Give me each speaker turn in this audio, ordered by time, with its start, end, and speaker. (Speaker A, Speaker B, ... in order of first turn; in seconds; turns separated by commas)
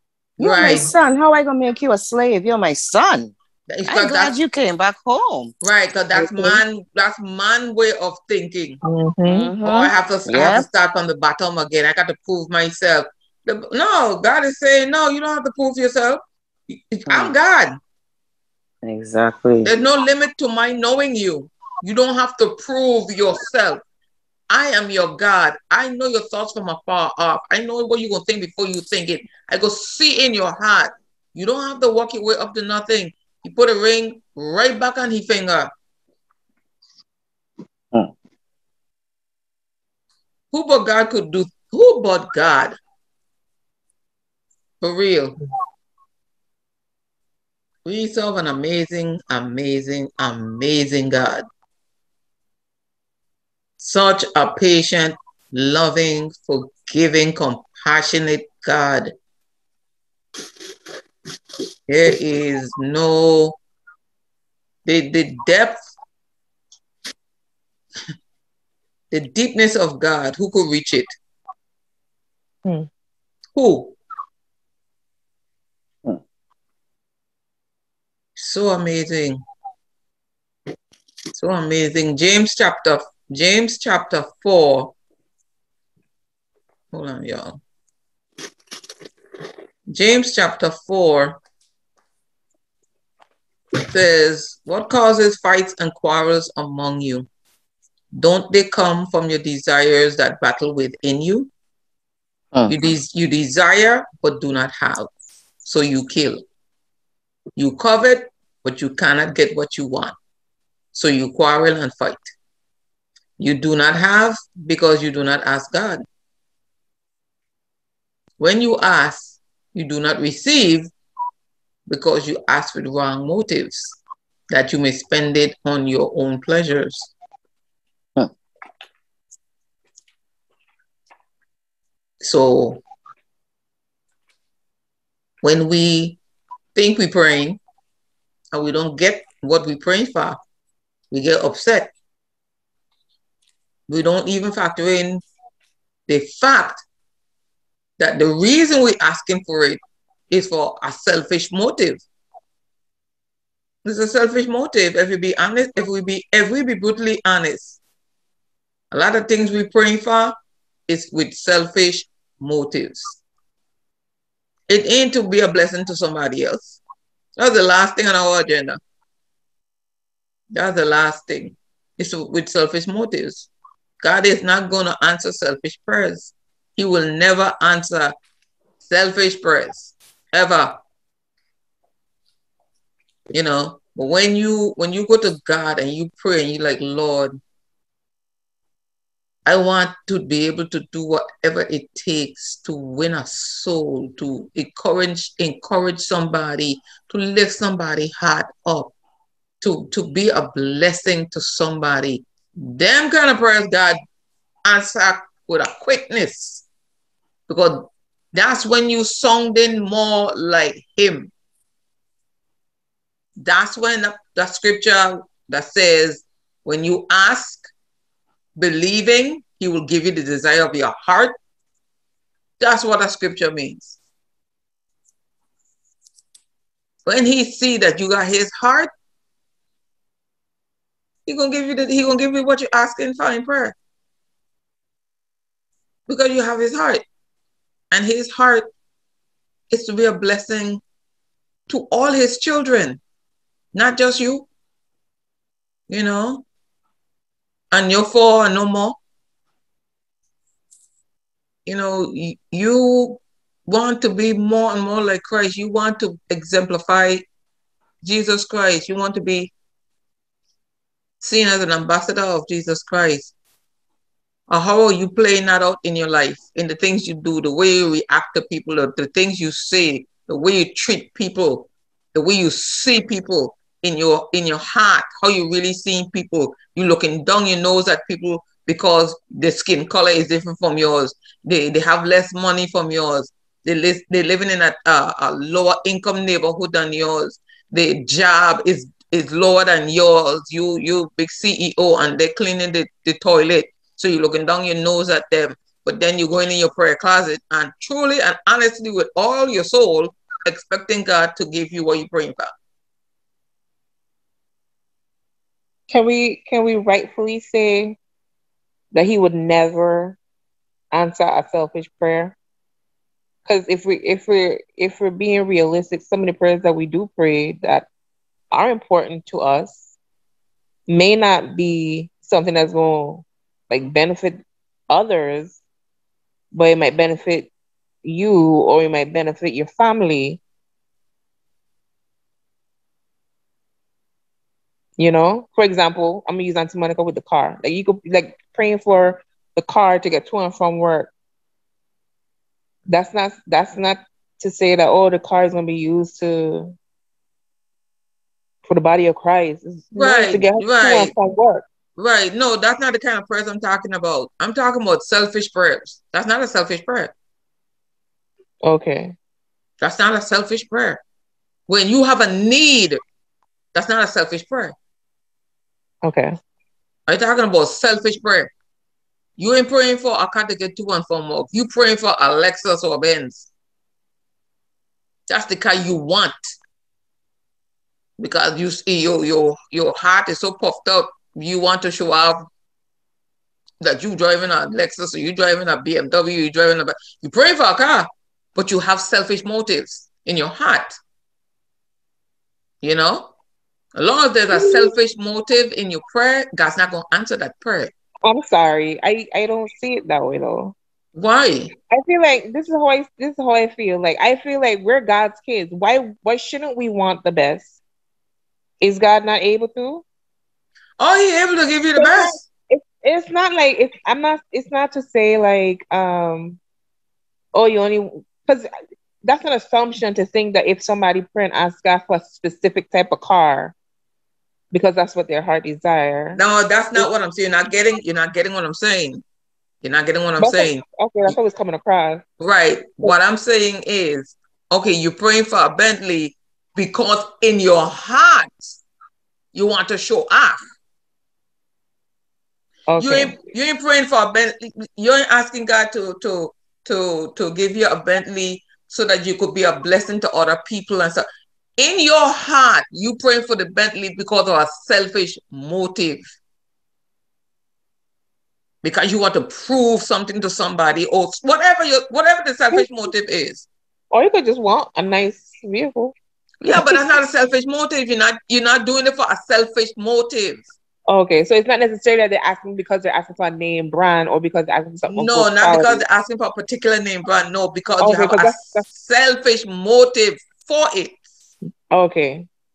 Speaker A: 0.4-0.9, Speaker B: 0.4-3.3, Speaker A: 3.7-4.3, Speaker B: 3.9-5.5, Speaker A: 5.6-8.8, Speaker B: 6.2-6.5, Speaker C: 8.8-9.5, Speaker B: 9.2-10.7, Speaker A: 9.6-17.8, Speaker B: 17.1-17.3, Speaker B: 18.8-19.7, Speaker A: 19.6-23.8, Speaker A: 24.5-35.7, Speaker A: 40.5-42.8, Speaker A: 44.8-45.4, Speaker A: 47.8-51.4, Speaker A: 53.8-59.1, Speaker A: 61.9-63.6, Speaker A: 64.8-65.9, Speaker A: 69.1-71.1, Speaker A: 73.5-74.0, Speaker A: 78.3-79.4, Speaker A: 81.3-84.9, Speaker A: 86.9-87.6, Speaker A: 89.9-91.4, Speaker A: 93.9-97.3, Speaker A: 98.1-101.5, Speaker A: 102.7-105.1, Speaker A: 105.6-106.4, Speaker A: 107.5-110.1, Speaker A: 110.9-112.3, Speaker A: 113.4-116.0, Speaker A: 118.4-120.9, Speaker A: 121.9-124.0, Speaker A: 124.5-127.1, Speaker A: 132.2-132.8, Speaker A: 135.4-136.2, Speaker A: 136.7-137.6, Speaker A: 138.5-140.4, Speaker A: 141.1-141.9, Speaker A: 143.9-145.2, Speaker A: 146.1-146.8, Speaker A: 148.0-152.0, Speaker A: 153.8-157.8, Speaker A: 158.9-160.3, Speaker A: 160.9-163.2, Speaker A: 164.7-166.8, Speaker A: 167.3-168.8, Speaker A: 170.5-173.5, Speaker A: 174.0-178.1, Speaker A: 178.8-180.7, Speaker A: 183.3-187.4, Speaker A: 189.4-198.9, Speaker A: 199.6-204.0, Speaker A: 204.6-206.7, Speaker A: 207.5-211.3, Speaker A: 213.4-217.7, Speaker A: 218.6-221.3, Speaker A: 222.6-224.0, Speaker A: 227.1-228.9, Speaker A: 231.2-233.7, Speaker A: 236.1-237.0, Speaker A: 237.9-238.7, Speaker A: 239.7-240.8, Speaker A: 241.7-243.0, Speaker A: 243.7-244.5, Speaker A: 245.9-246.4, Speaker A: 247.7-248.9, Speaker A: 251.7-257.2, Speaker A: 258.0-259.5, Speaker A: 261.2-263.3, Speaker A: 264.5-302.5, Speaker C: 305.9-308.0, Speaker C: 308.9-310.2, Speaker C: 310.9-312.4, Speaker C: 313.5-317.9, Speaker C: 318.5-319.8, Speaker C: 320.9-325.6, Speaker C: 326.5-327.5, Speaker C: 328.0-330.4, Speaker C: 335.0-341.1, Speaker C: 342.9-346.7, Speaker C: 348.6-351.6, Speaker A: 349.9-351.1, Speaker A: 352.0-357.1, Speaker C: 358.6-359.1, Speaker A: 359.8-361.0, Speaker A: 361.7-363.0, Speaker A: 363.7-364.7, Speaker C: 366.0-366.4, Speaker A: 367.1-368.5, Speaker A: 369.4-373.5, Speaker A: 375.3-376.5, Speaker A: 378.2-382.5, Speaker A: 383.8-391.0, Speaker A: 392.8-393.3, Speaker A: 393.9-397.9, Speaker C: 394.5-394.9, Speaker C: 398.2-400.7, Speaker A: 401.1-401.7, Speaker C: 401.9-407.7, Speaker C: 408.8-410.0, Speaker A: 411.0-412.4, Speaker C: 411.9-416.6, Speaker C: 417.5-418.7, Speaker C: 419.2-423.7, Speaker C: 424.7-426.4, Speaker A: 426.4-429.2, Speaker A: 429.8-431.4, Speaker C: 430.4-432.2, Speaker A: 432.4-438.8, Speaker A: 439.5-440.6, Speaker C: 442.9-443.3, Speaker A: 443.0-451.2, Speaker A: 451.8-456.3, Speaker A: 458.8-463.7, Speaker C: 464.1-466.1, Speaker A: 466.6-470.7, Speaker C: 466.7-467.0, Speaker C: 471.1-476.0, Speaker A: 475.1-481.2, Speaker C: 478.0-478.8, Speaker C: 481.9-482.5